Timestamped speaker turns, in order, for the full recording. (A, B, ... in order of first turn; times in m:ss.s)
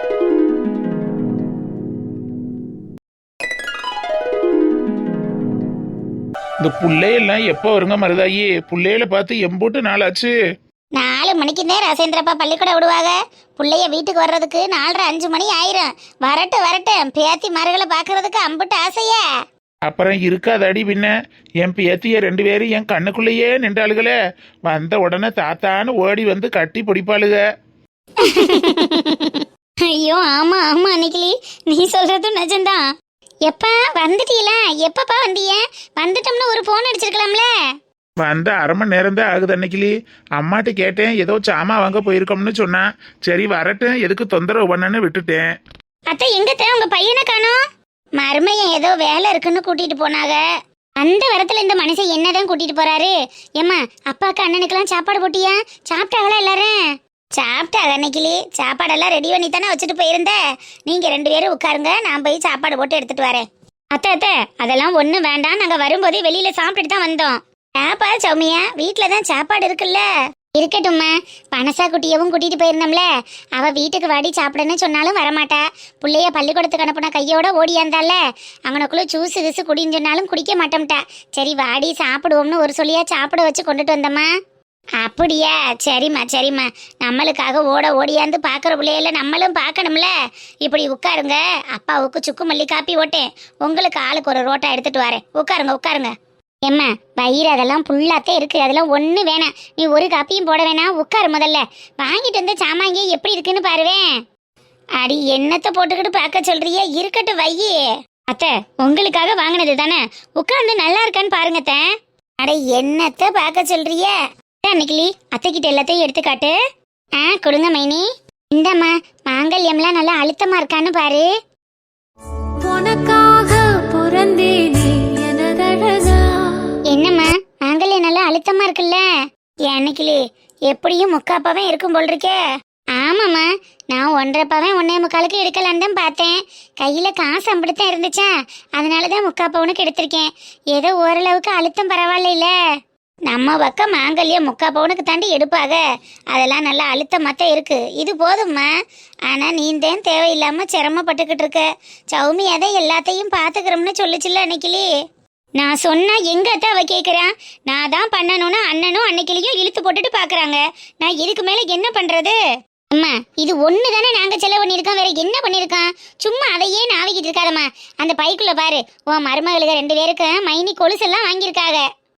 0:06.6-0:10.3 A
0:11.0-0:19.2 B
0:19.9-0:24.1 A
0:24.7-0:27.4 A
0:28.2-0:32.8 B
0:33.5-0:37.5 B
0:38.2-0:45.4 A
0:46.1-0:47.6 B
0:48.2-0:50.4 B
0:51.0-0:56.8 B
0:57.4-1:24.3 B
1:25.0-1:30.1 B
1:30.6-1:36.1 B
1:36.6-1:44.1 B
1:45.0-1:51.8 B
1:52.4-1:56.5 B
1:57.2-2:01.3 B
2:02.6-2:06.7 C
2:06.9-2:09.0 B
2:09.7-2:12.4 B
2:13.0-2:22.5 B
2:23.3-2:25.8 B
2:26.3-2:28.7 B
2:29.3-2:34.9 B
2:35.6-2:42.4 B
2:42.9-2:51.8 B